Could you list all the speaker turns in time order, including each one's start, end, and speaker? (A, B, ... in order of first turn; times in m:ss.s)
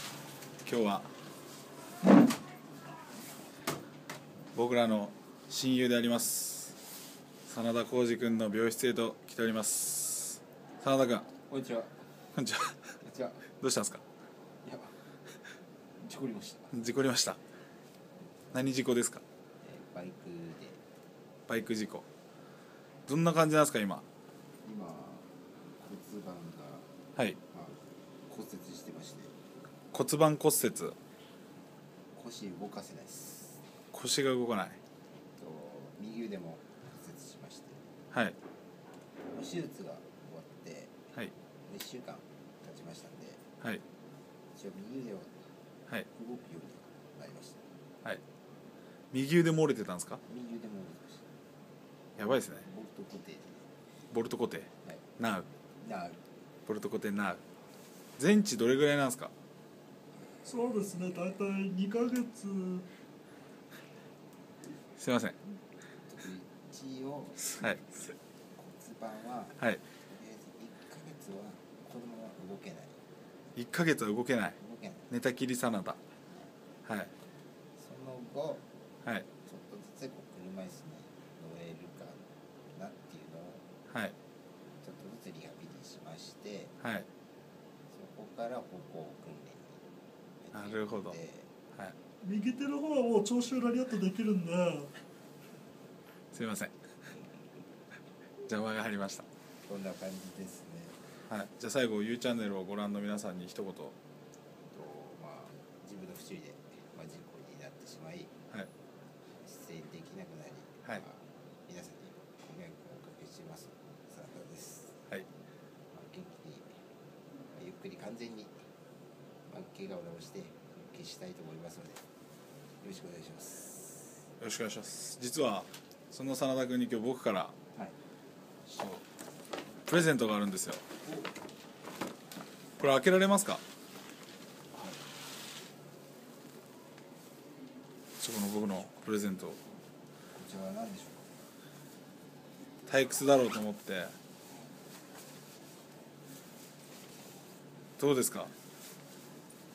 0:00.6-0:01.1 A
0:04.5-0:06.8 A
0:07.5-0:11.3 A
0:11.5-0:11.9 B
0:12.3-0:12.9 A
0:13.0-0:13.4 B
0:13.6-0:14.0 A
0:14.6-0:14.9 B
0:16.0-0:16.7 B
0:16.7-0:17.4 A
0:18.5-0:19.2 A
0:19.6-0:20.8 B
0:21.5-0:22.0 A
0:23.1-0:24.0 A
0:24.6-0:25.3 B
0:25.8-0:26.9 B
0:27.5-0:29.3 B
0:29.9-0:31.0 A
0:32.1-0:33.6 B
0:33.9-0:34.8 A
0:35.4-0:37.8 B
0:39.3-0:40.9 B
0:41.6-0:43.4 B
0:44.5-0:45.4 B
0:46.1-0:47.6 B
0:49.1-0:50.2 A
0:50.3-0:51.2 B
0:52.2-0:52.6 A
0:52.2-0:53.6 B
0:54.1-0:55.5 A
0:55.8-0:56.2 B
0:56.6-0:57.4 A
0:58.2-0:59.3 A
1:00.4-1:02.9 C
1:05.0-1:05.4 A
1:06.0-1:12.9 B
1:07.6-1:07.8 A
1:13.6-1:14.6 A
1:14.6-1:15.1 B
1:15.1-1:16.0 A
1:16.8-1:17.1 A
1:17.8-1:18.6 B
1:19.4-1:22.2 B
1:22.7-1:23.6 B
1:23.9-1:24.1 A
1:24.8-1:26.7 B
1:26.8-1:27.1 A
1:27.9-1:29.7 B
1:30.4-1:31.5 B
1:30.5-1:31.2 A
1:32.2-1:34.9 C
1:36.3-1:36.7 A
1:38.5-1:39.3 A
1:39.6-1:41.0 B
1:41.3-1:44.0 A
1:44.7-1:48.3 B
1:49.4-1:55.0 B
1:55.9-1:56.8 B
1:57.5-1:58.6 B
1:59.5-2:02.0 B
2:02.8-2:04.1 B
2:04.4-2:07.5 A
2:08.6-2:09.0 A
2:09.9-2:10.8 A
2:12.8-2:13.6 A
2:14.7-2:15.0 B
2:18.2-2:19.6 A
2:20.3-2:21.3 B
2:22.8-2:24.1 A
2:28.0-2:28.5 A